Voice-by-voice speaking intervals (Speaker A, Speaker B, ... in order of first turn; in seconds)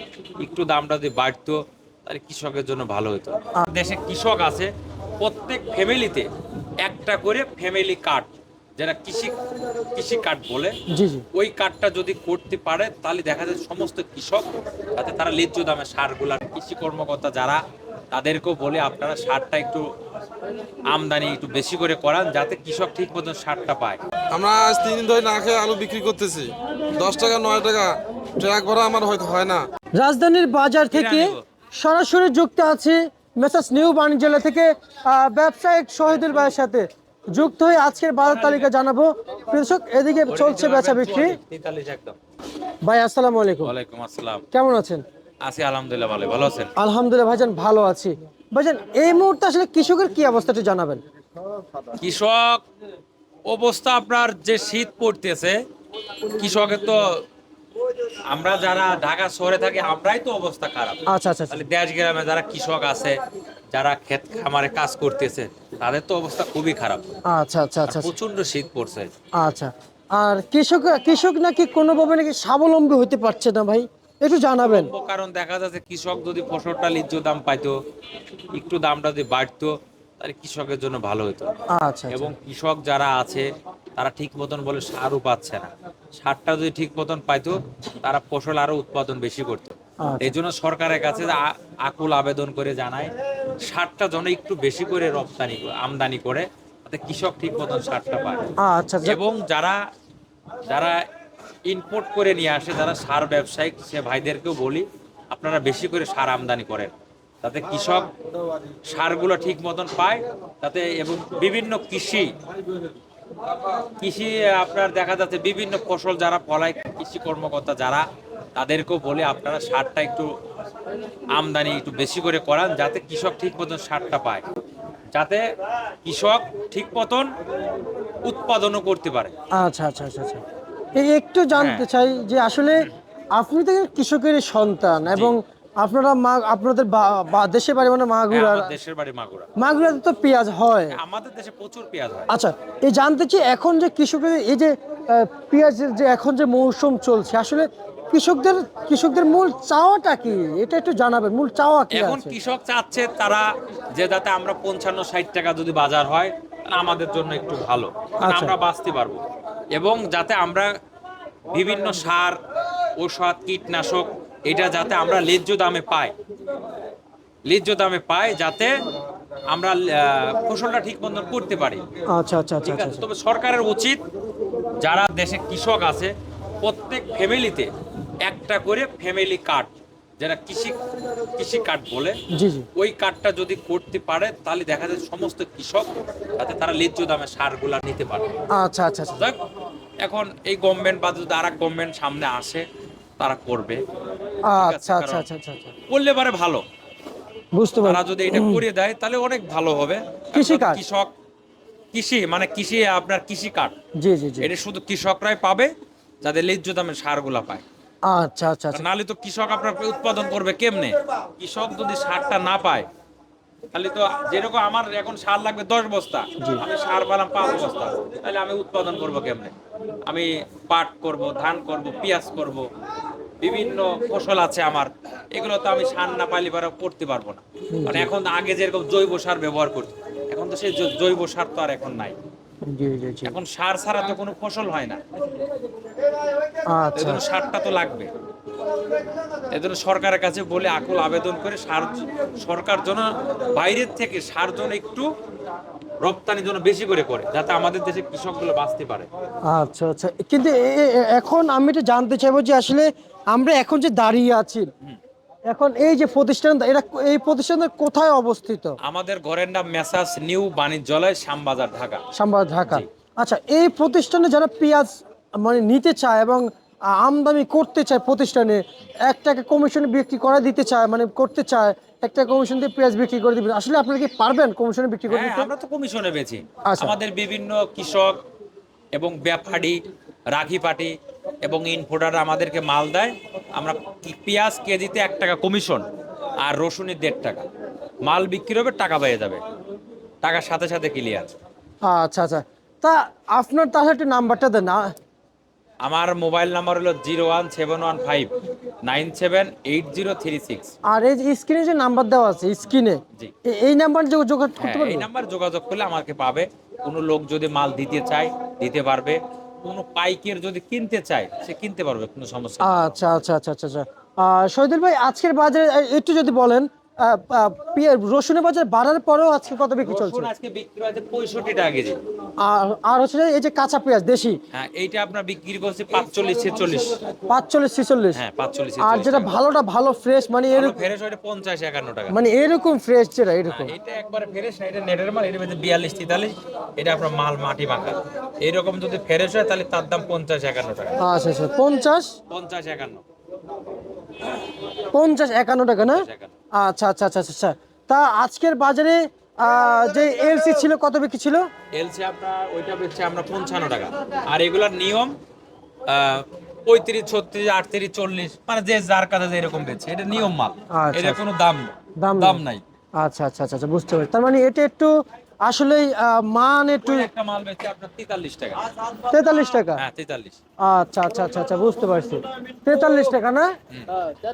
Speaker A: 0.4-6.2, 6.8-9.3, 9.9-10.8, 11.3-19.9, 20.9-24.0, 30.9-31.4, 38.3-38.7, 40.3-42.2, 43.6-44.4, 45.4-46.7, 52.0-52.6, 53.5-55.6, 56.3-57.2, 58.3-63.2, 63.7-67.0, 67.9-69.1, 74.6-77.8, 78.5-81.5, 82.1-98.4, 99.0-99.8, 100.7-101.0, 101.7-106.9, 107.4-108.1, 108.9-112.3, 114.0-118.0, 118.5-120.3, 121.3-124.4, 125.1-125.4, 126.0-127.3, 128.2-129.3, 131.5-131.8, 135.1-135.3, 138.3-139.5, 140.9-142.3, 151.9-159.2, 159.7-160.7, 161.5-162.4, 163.0-166.1, 167.5-168.7, 169.5-171.8, 172.6-174.0, 174.8-176.1, 176.6-177.7, 178.2-180.8, 181.4-182.2, 182.8-188.2, 190.0-192.6, 193.2-193.8, 194.6-195.2, 195.9-196.6, 197.8-201.1, 201.9-203.7, 204.4-207.6, 208.7-212.8, 213.7-219.5, 220.1-222.7, 223.4-232.2, 233.2-235.0, 236.9-238.1, 239.5-245.1, 246.0-249.1, 258.8-262.0, 275.1-278.2, 278.9-279.8, 280.3-280.9, 281.4-285.9, 286.4-287.4, 288.0-289.4, 290.2-291.3, 295.8-298.3, 298.9-300.7, 304.6-313.1, 319.4-322.0, 324.5-327.0, 328.1-329.3, 330.5-332.1, 333.5-341.0, 342.3-343.0, 345.9-346.3, 351.7-355.1, 355.9-362.6, 366.8-368.7, 369.8-370.4
Speaker B: 10.9-11.2, 29.9-41.4, 42.8-43.7, 44.5-45.0, 46.8-51.0, 61.1-61.6, 67.3-68.1, 69.4-74.9, 81.7-82.3, 90.0-90.3, 98.6-99.2, 129.5-130.4, 130.9-138.7, 139.6-141.0, 142.3-152.3, 158.2-158.5, 172.1-173.1, 182.3-182.7, 188.5-189.2, 194.5-195.7, 197.5-198.6, 200.3-200.8, 204.0-204.5, 208.1-208.8, 227.7-228.1, 232.6-233.4, 236.7-237.2, 249.4-254.7, 255.5-258.8, 262.1-275.5, 276.7-276.9, 291.8-294.9, 300.9-305.1, 312.6-320.3, 322.4-324.4, 327.3-328.2, 328.8-330.8, 332.1-333.7, 341.0-342.1, 344.9-351.4, 360.7-361.2, 362.0-362.4, 363.0-367.1, 369.1-369.8, 370.6-373.5
Speaker C: 24.3-29.6